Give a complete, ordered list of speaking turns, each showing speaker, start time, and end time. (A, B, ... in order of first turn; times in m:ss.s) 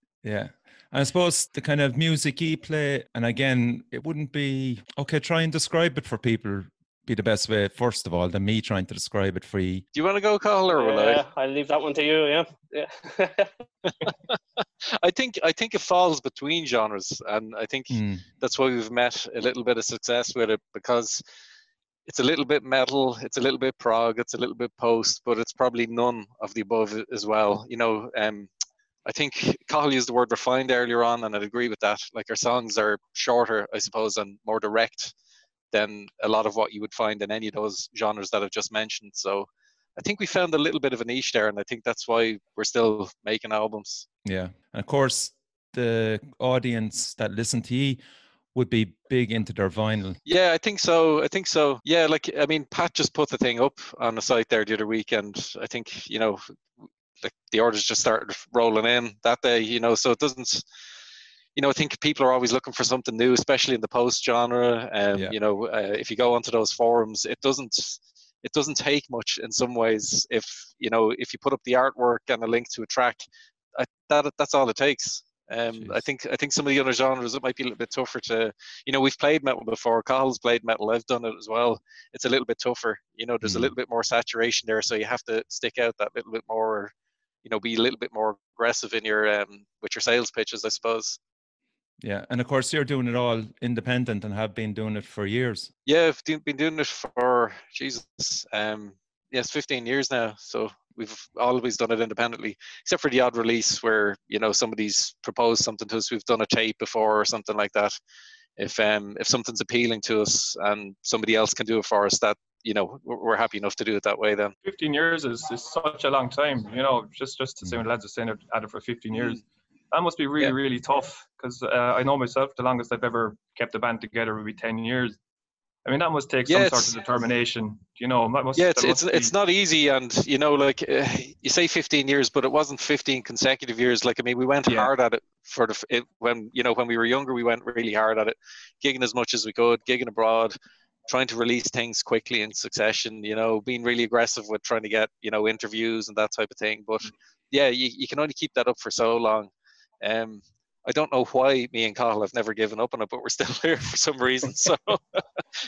0:00.2-0:09.8 A
0:10.0-0:11.2 B
0:10.7-0:13.5 C
0:14.6-0:21.2 B
0:17.9-0:18.2 A
0:22.1-0:28.5 B
0:29.1-0:35.1 B
0:35.7-0:44.1 B
0:44.2-0:48.0 A
0:48.5-0:50.2 A
0:50.3-0:56.5 B
0:57.2-1:00.6 B
1:01.6-1:13.2 B
1:13.8-1:26.9 B
1:15.7-1:16.0 A
1:23.4-1:23.7 A
1:27.4-1:31.2 B
1:32.0-1:35.7 A
1:35.9-1:48.0 B
1:48.6-1:54.6 B
1:54.6-2:05.2 D
2:05.8-2:09.3 D
2:06.5-2:07.0 B
2:08.6-2:20.5 B
2:14.7-2:14.9 D
2:21.1-2:29.5 B
2:30.0-2:35.2 B